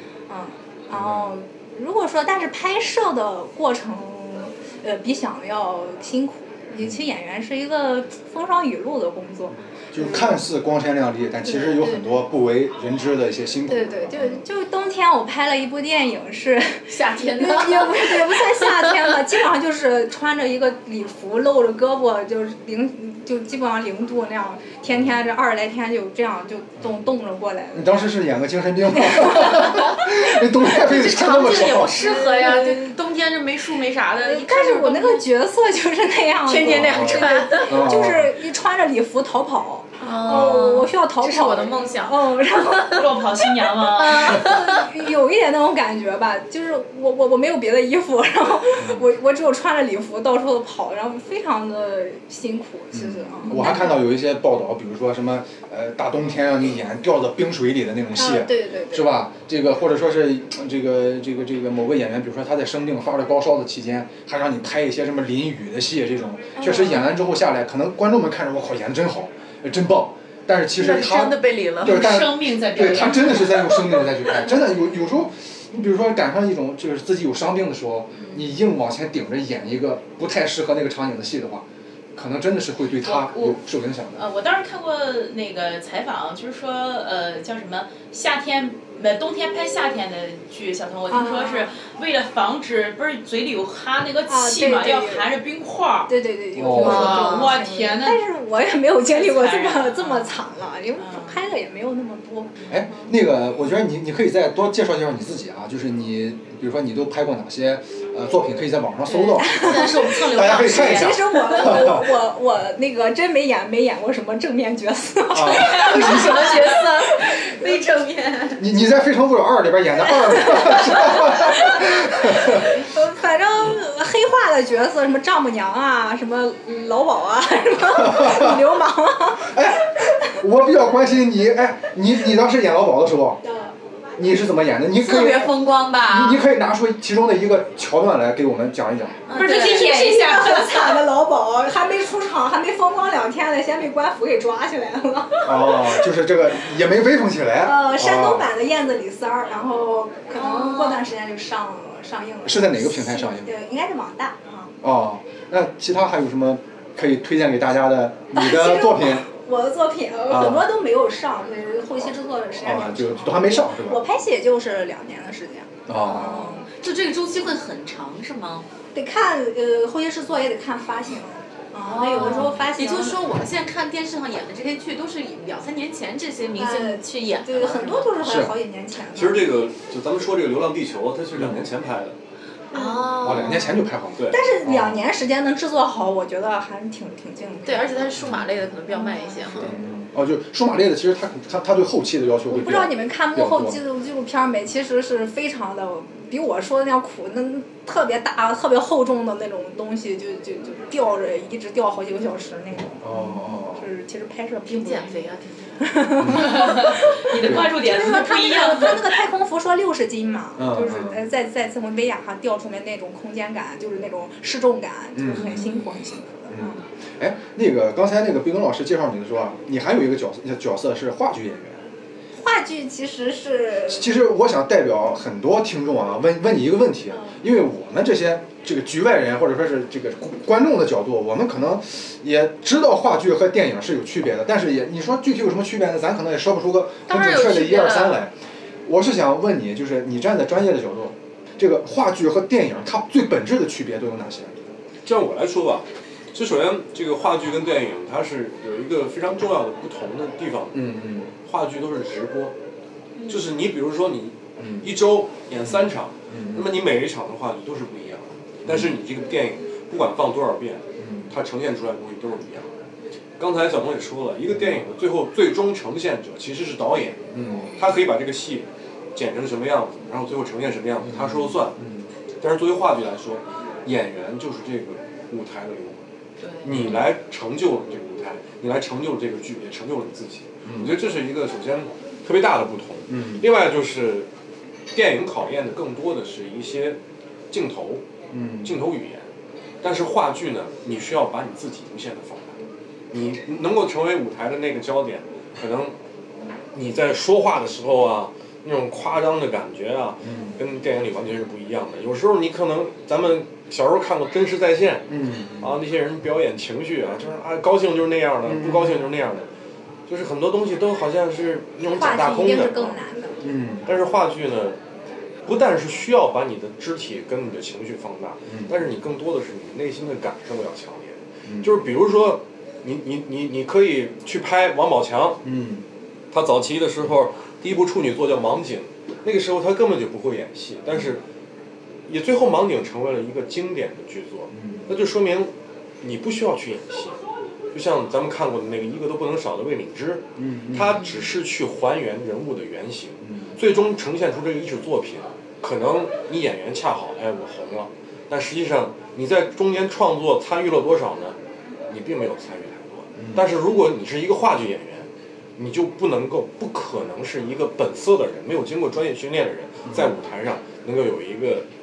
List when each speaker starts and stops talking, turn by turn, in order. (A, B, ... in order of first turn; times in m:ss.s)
0:00.3-0:10.3 A
0:00.9-0:01.3 B
0:09.9-0:14.4 B
0:11.5-0:12.0 A
0:13.7-0:28.0 A
0:16.9-0:19.1 C
0:27.7-0:32.1 B
0:28.9-0:29.8 A
0:30.6-0:35.2 C
0:32.0-0:32.9 A
0:34.2-0:43.2 A
0:36.4-0:37.9 C
0:36.6-0:38.3 B
0:40.0-0:43.0 C
0:40.3-0:40.6 B
0:42.9-0:44.4 D
0:43.7-0:44.9 C
0:44.0-0:54.0 A
0:48.8-0:49.0 B
0:52.9-1:24.2 B
0:58.1-0:59.2 A
1:06.6-1:07.1 A
1:10.8-1:12.1 C
1:11.8-1:13.8 D
1:23.0-1:23.6 D
1:24.2-1:36.1 D
1:31.1-1:31.8 A
1:34.3-1:35.2 A
1:36.1-1:43.1 A
1:36.6-1:37.2 B
1:36.6-1:38.2 D
1:36.8-1:37.6 C
1:39.0-1:40.4 D
1:41.0-1:41.4 D
1:42.7-1:52.1 B
1:49.0-1:52.0 C
1:49.4-1:57.3 A
1:55.3-1:56.5 B
1:55.4-1:58.6 C
1:58.6-2:02.7 B
2:00.4-2:10.1 A
2:07.9-2:08.6 B
2:09.5-2:13.4 B
2:13.4-2:13.7 A
2:14.2-2:19.2 B
2:15.0-2:16.4 C
2:19.3-2:20.0 C
2:19.3-2:26.1 A
2:19.3-2:21.0 D
2:25.4-2:28.5 B
2:27.6-2:34.7 A
2:30.3-2:31.0 C
2:32.4-2:33.5 B
2:34.8-2:39.2 B
2:38.3-2:46.6 A
2:40.3-2:40.7 B
2:42.6-2:44.0 B
2:45.9-2:46.5 B
2:46.1-2:48.7 C
2:48.9-2:53.2 A
2:51.8-2:58.1 C
2:52.1-2:52.6 B
2:56.6-2:59.5 A
2:58.2-2:58.5 B
2:59.1-3:02.1 E
3:01.3-3:01.6 B
3:02.7-3:03.6 A
3:02.7-3:03.8 C
3:03.2-3:05.0 B
3:04.3-3:08.0 A
3:07.6-3:09.8 C
3:08.9-3:09.7 A
3:09.5-3:13.8 B
3:12.5-3:25.2 A
3:23.0-3:23.9 B
3:24.7-3:25.8 C
3:25.8-3:36.8 A
3:26.2-3:26.5 B
3:26.3-3:29.1 D
3:27.4-3:27.7 B
3:30.6-3:31.2 B
3:35.1-3:35.7 B
3:36.5-3:41.8 B
3:42.3-3:44.1 A
3:43.9-3:58.3 B
3:57.1-3:58.2 C
3:58.8-4:04.6 B
4:05.0-4:12.5 E
4:10.7-4:11.3 B
4:13.2-4:22.7 E
4:14.6-4:14.9 B
4:16.3-4:16.7 B
4:18.6-4:18.9 B
4:21.0-4:21.3 B
4:23.4-4:31.8 E
4:27.3-4:27.7 B
4:31.0-4:32.1 B
4:32.4-4:36.0 E
4:36.6-4:44.3 E
4:36.7-4:37.0 B
4:40.6-4:41.0 B
4:43.1-4:43.4 B
4:44.9-4:47.0 E
4:47.5-4:48.0 E
4:48.3-4:48.8 B
4:48.6-4:49.2 E
4:49.8-4:52.6 E
4:53.1-4:55.9 E
4:56.7-5:05.1 E
5:00.2-5:00.6 B
5:05.1-5:05.7 B
5:05.6-5:09.5 E
5:08.4-5:09.0 B
5:10.1-5:13.0 E
5:11.9-5:13.3 A
5:13.4-5:13.9 B
5:13.8-5:14.8 E
5:15.4-5:25.4 E
5:18.5-5:18.8 B
5:21.4-5:21.7 B
5:25.4-5:25.8 B
5:26.3-5:31.2 E
5:32.1-5:37.2 E
5:34.5-5:34.9 B
5:37.7-5:51.4 E
5:40.4-5:41.1 B
5:43.2-5:43.5 B
5:51.9-6:01.6 E
5:53.2-5:53.5 B